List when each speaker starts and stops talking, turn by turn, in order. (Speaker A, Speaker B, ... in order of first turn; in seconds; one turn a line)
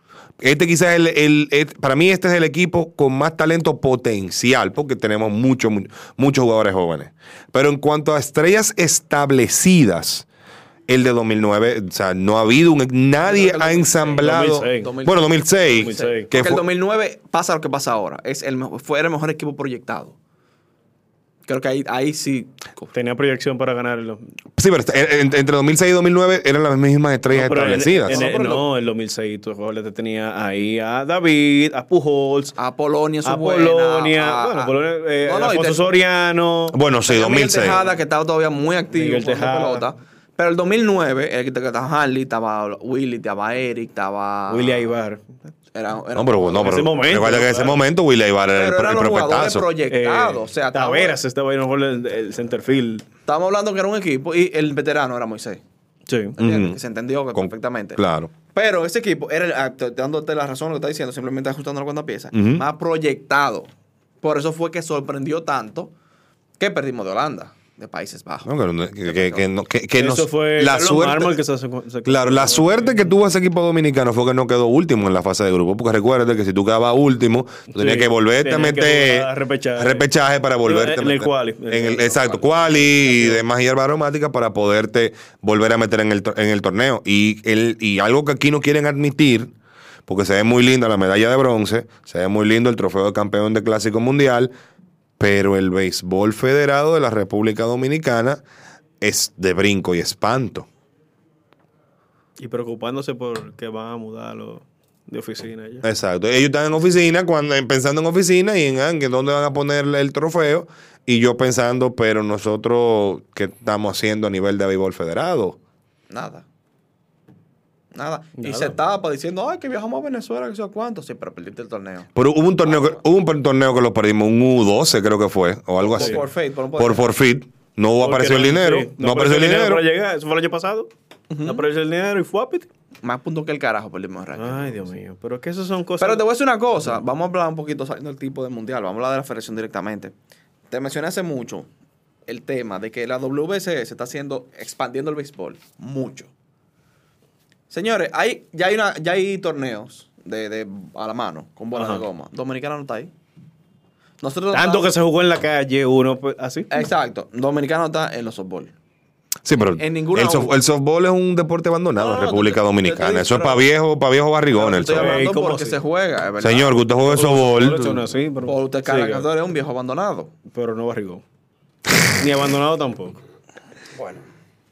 Speaker A: 0.4-10.2
Speaker A: 10.9-16.6
Speaker B: 13.2-20.1
Speaker C: 14.2-14.9
Speaker C: 15.8-16.3
Speaker B: 21.4-22.9
Speaker C: 22.9-24.2
Speaker A: 24.6-28.3
Speaker C: 27.3-32.5
Speaker B: 28.1-28.6
Speaker B: 32.5-35.8
Speaker C: 33.2-36.8
Speaker A: 36.7-37.8
Speaker B: 37.1-44.8
Speaker C: 38.9-39.9
Speaker C: 44.5-45.5
Speaker B: 45.7-47.1
Speaker A: 46.1-49.7
Speaker C: 46.6-47.8
Speaker B: 48.5-51.2
Speaker C: 49.9-53.0
Speaker B: 53.3-55.6
Speaker C: 56.1-56.4
Speaker B: 56.4-58.0
Speaker A: 56.4-56.8
Speaker A: 57.3-58.3
Speaker B: 58.5-63.7
Speaker A: 62.3-62.6
Speaker B: 64.2-65.9
Speaker B: 66.6-68.5
Speaker A: 68.4-71.3
Speaker B: 69.0-69.4
Speaker C: 70.0-73.0
Speaker A: 72.0-89.5
Speaker C: 77.7-80.1
Speaker C: 80.6-83.4
Speaker A: 90.1-94.5
Speaker A: 95.2-98.4
Speaker A: 99.0-100.7
Speaker C: 102.4-105.8
Speaker A: 105.8-115.6
Speaker B: 116.1-116.4
Speaker B: 117.9-122.1
Speaker C: 118.4-118.8
Speaker A: 122.2-126.2
Speaker B: 122.6-123.0
Speaker B: 125.8-127.1
Speaker A: 126.8-129.8
Speaker C: 128.0-130.9
Speaker B: 131.3-131.6
Speaker C: 131.4-132.7
Speaker B: 133.0-134.9
Speaker C: 134.3-136.2
Speaker B: 136.0-140.1
Speaker B: 140.7-141.7
Speaker B: 142.3-146.3
Speaker B: 147.7-153.1
Speaker C: 151.7-152.0
Speaker B: 154.2-154.9
Speaker C: 154.5-156.8
Speaker B: 156.7-158.7
Speaker A: 159.4-165.2
Speaker B: 159.8-160.5
Speaker B: 161.9-163.7
Speaker B: 164.5-166.8
Speaker C: 164.9-165.8
Speaker A: 166.4-168.0
Speaker C: 167.1-169.3
Speaker B: 168.4-170.3
Speaker C: 170.5-171.2
Speaker C: 172.1-173.2
Speaker B: 173.9-174.2